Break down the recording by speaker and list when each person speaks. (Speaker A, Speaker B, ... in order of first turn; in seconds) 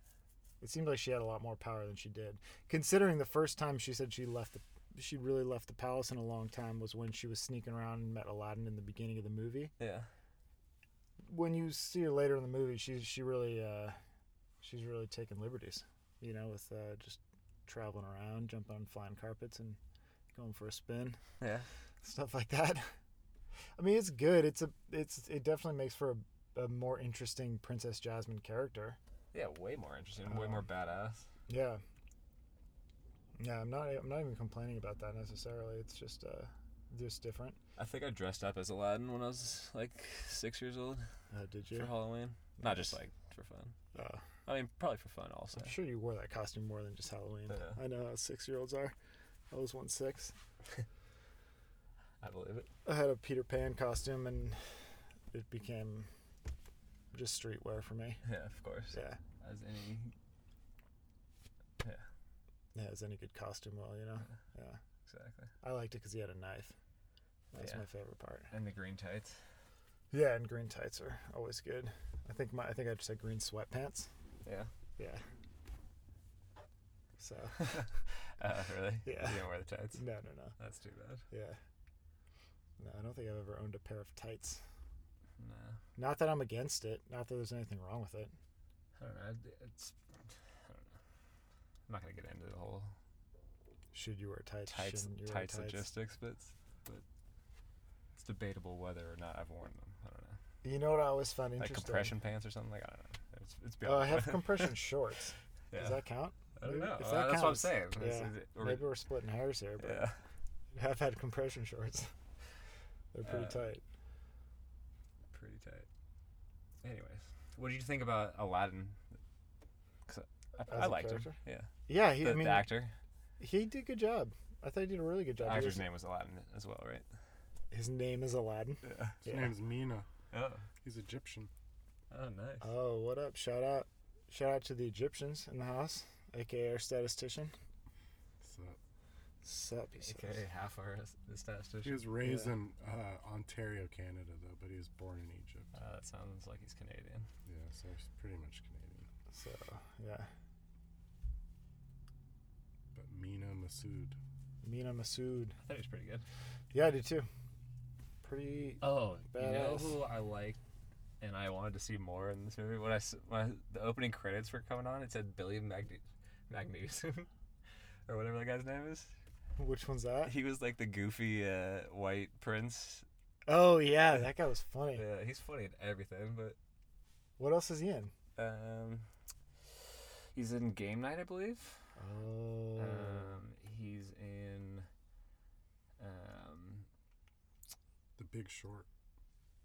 Speaker A: 0.6-9.7, 11.3-14.0, 14.6-19.8, 20.3-21.2, 22.0-22.9, 23.8-29.0, 30.3-30.6, 31.5-31.8, 33.4-37.6, 41.3-41.9, 42.6-42.9, 43.9-44.2, 45.6-49.0, 49.5-50.4, 52.9-56.1, 57.1-58.2, 58.9-59.2, 62.8-64.8, 65.6-66.7, 67.5-68.5, 70.1-74.1, 75.0-75.2, 77.2-77.8, 79.0-79.4, 80.0-80.6, 81.3-81.6, 82.8-84.6, 86.0-88.3, 93.9-95.8, 100.6-102.1, 103.8-110.1, 110.7-112.1, 113.1-113.8, 120.6-121.4, 121.9-122.7, 123.4-125.8, 127.7-129.5, 132.6-137.5, 139.4-140.4, 142.2-142.5, 149.3-150.3, 154.6-155.6, 156.7-157.3, 158.2-160.0, 169.6-170.3, 173.5-175.1, 177.4-178.1, 182.0-183.4
Speaker B: 9.8-10.1, 21.4-21.7, 29.3-31.3, 37.8-41.1, 41.7-43.8, 44.5-45.8, 47.5-47.8, 52.2-52.7, 58.2-60.1, 65.1-65.5, 67.6-67.8, 68.5-69.4, 74.5-74.7, 77.6-80.0, 80.6-81.2, 85.4-85.8, 89.0-91.0, 91.9-92.9, 94.7-97.0, 98.2-100.4, 101.6-104.7, 105.7-106.0, 106.6-108.9, 109.8-110.2, 113.2-113.7, 115.3-115.9, 116.8-119.0, 120.1-123.0, 125.4-127.1, 128.8-129.2, 130.3-130.7, 132.1-132.7, 140.0-142.0, 145.8-147.3, 155.6-156.2, 158.8-160.6, 161.2-167.3, 168.1-169.1, 170.3-173.1, 174.9-176.6, 178.4-179.1, 180.3-181.8, 182.8-184.9, 186.0-186.9
Speaker C: 129.2-130.1, 130.8-131.5, 138.4-138.8, 141.8-145.7, 147.5-149.1, 152.9-154.2, 188.2-188.9